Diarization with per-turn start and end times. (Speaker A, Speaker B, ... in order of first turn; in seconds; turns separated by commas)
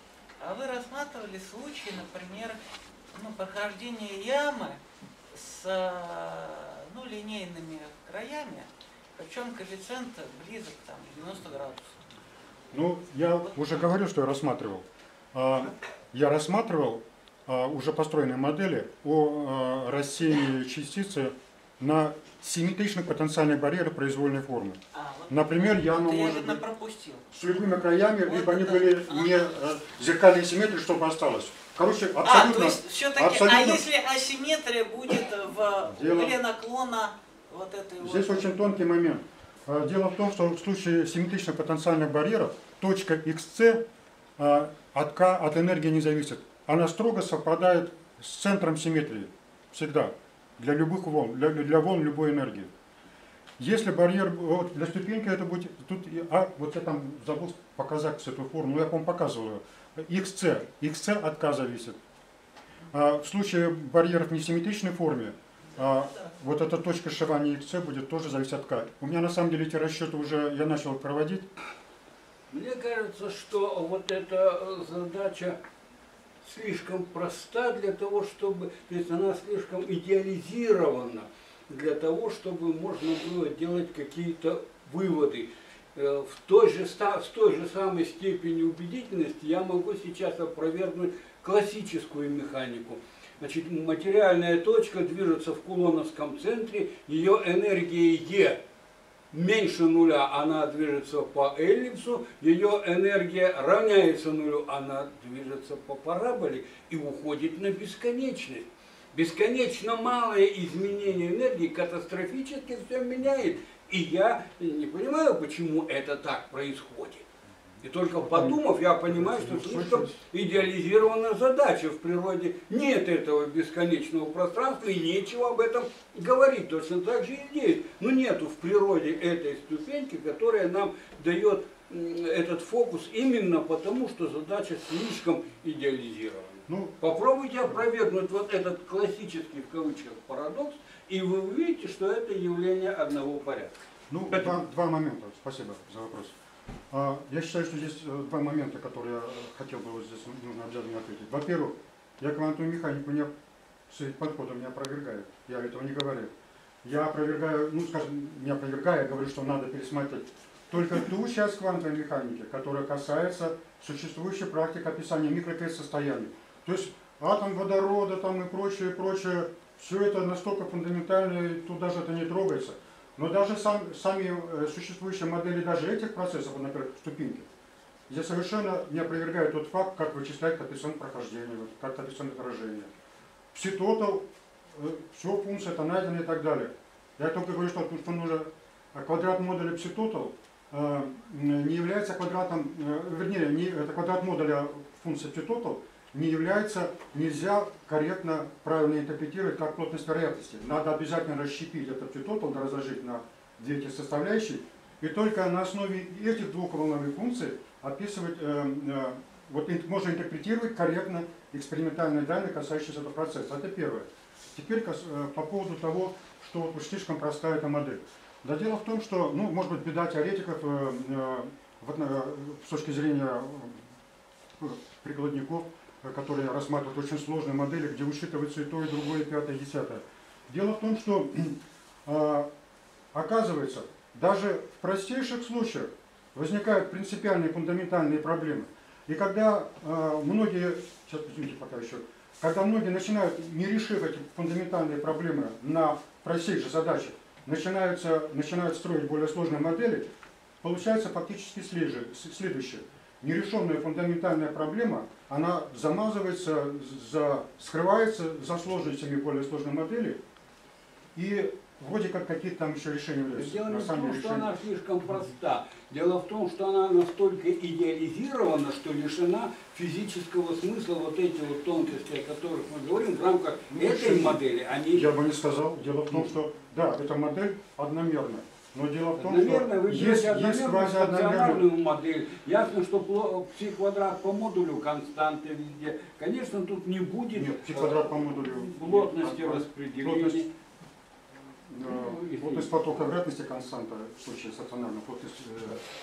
Speaker A: 0.4-2.6, Speaker A: 3.1-4.8, Speaker A: 5.3-12.0, Speaker B: 12.7-24.8, Speaker A: 24.9-27.3, Speaker B: 25.3-26.6, Speaker B: 27.3-33.9, Speaker A: 27.8-29.6, Speaker A: 32.2-38.6, Speaker B: 35.9-36.4, Speaker B: 38.0-43.8, Speaker B: 44.4-52.7, Speaker B: 53.6-62.0, Speaker B: 62.9-71.5, Speaker C: 72.5-75.6, Speaker C: 76.4-98.6, Speaker C: 99.3-117.3, Speaker C: 117.8-143.8, Speaker B: 118.2-120.2, Speaker B: 136.7-137.0, Speaker B: 144.1-146.4, Speaker C: 144.3-144.6, Speaker B: 146.9-153.3, Speaker B: 153.9-156.3, Speaker B: 156.8-177.5, Speaker B: 178.1-182.9, Speaker B: 183.5-223.9, Speaker B: 224.6-232.5, Speaker B: 233.1-250.1, Speaker B: 250.6-260.2, Speaker B: 261.1-264.5, Speaker C: 263.3-275.1, Speaker B: 273.7-281.6, Speaker C: 279.2-290.5, Speaker B: 287.3-290.4, Speaker B: 291.7-295.8, Speaker C: 291.8-292.7